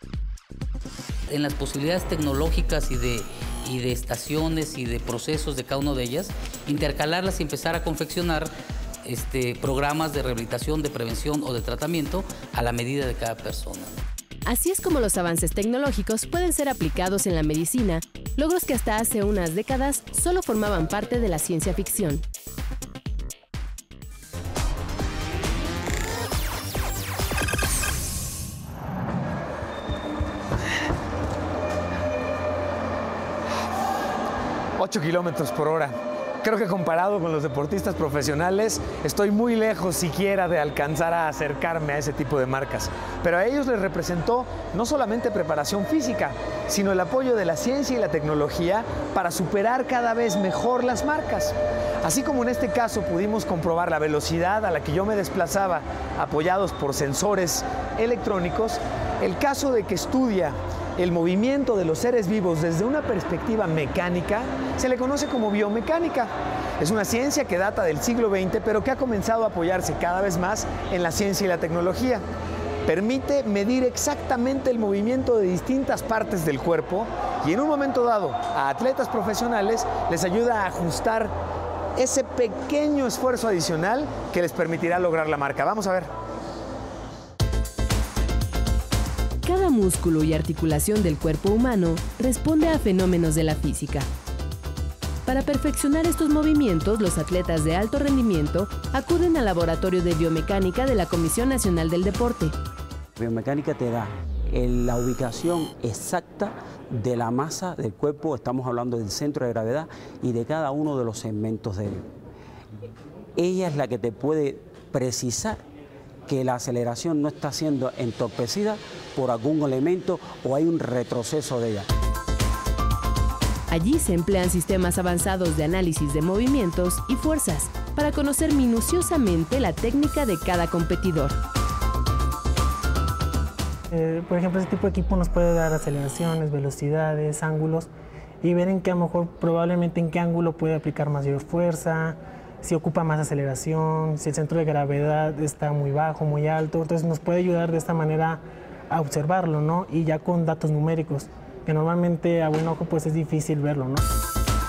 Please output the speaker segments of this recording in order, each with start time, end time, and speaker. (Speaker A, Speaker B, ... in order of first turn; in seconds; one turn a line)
Speaker A: 1.3-8.5
Speaker A: 9.0-14.0
Speaker B: 14.4-22.2
Speaker C: 34.8-72.2
Speaker C: 72.8-81.3
Speaker C: 82.0-86.1
Speaker B: 89.4-94.1
Speaker B: 95.2-102.5
Speaker D: 103.2-112.1
Speaker D: 113.4-115.6
Speaker D: 116.3-121.8
Speaker B: 123.7-131.4
Speaker E: 133.9-137.9
Speaker E: 138.4-154.0